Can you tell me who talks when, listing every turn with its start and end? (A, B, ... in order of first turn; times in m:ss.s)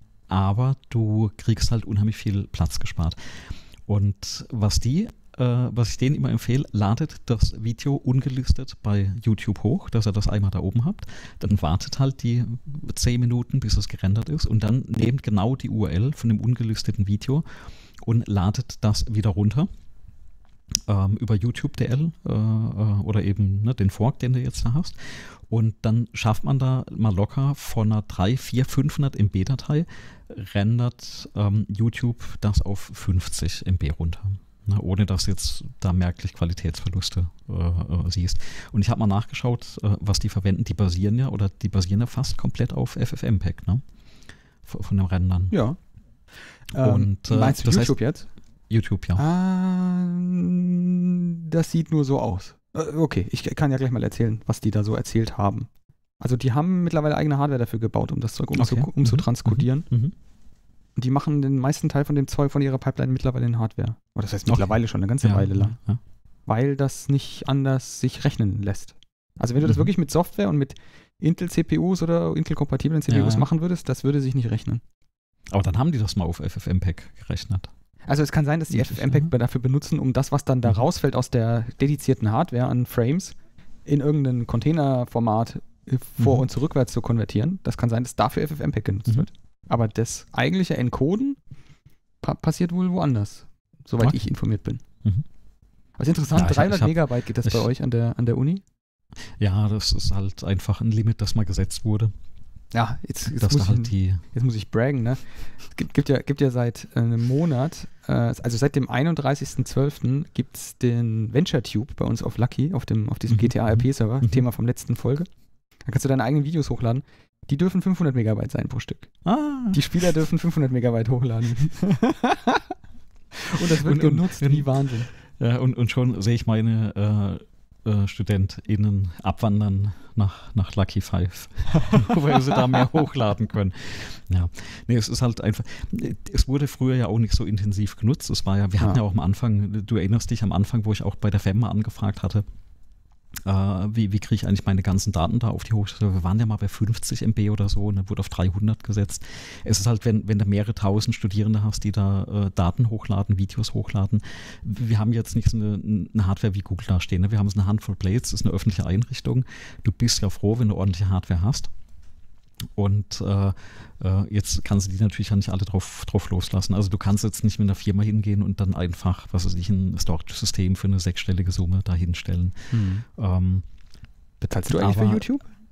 0:00.3-0:17.4 A
0:18.0-0:19.7 A
0:20.9-0:43.8 A
0:44.6-0:45.5 A
0:45.5-0:45.8 B
0:46.5-0:48.3 B
0:46.7-0:48.0 A
0:48.7-0:49.2 A
0:49.2-0:55.7 B
0:56.2-0:59.9 B
0:58.6-1:00.2 A
1:01.0-1:05.8 B
1:04.5-1:06.0 A
1:06.5-1:14.8 B
1:09.6-1:09.9 A
1:13.1-1:13.5 A
1:15.5-1:17.7 A
1:18.1-1:23.4 B
1:18.7-1:19.3 A
1:23.9-1:31.4 B
1:26.2-1:26.5 A
1:32.2-1:34.8 B
1:36.0-1:38.6 B
1:36.3-1:37.7 A
1:39.4-1:42.1 A
1:42.7-1:55.3 B
1:43.3-1:44.2 A
1:53.3-1:54.4 A
1:55.9-1:59.1 B
1:59.2-2:00.1 A
1:59.7-2:02.7 B
2:03.4-2:05.1 B
2:03.6-2:22.5 A
2:11.8-2:12.1 B
2:23.4-2:41.7 A
2:42.8-2:53.6 A
2:52.7-2:53.0 B
2:54.4-2:55.4 B
2:54.7-2:55.2 A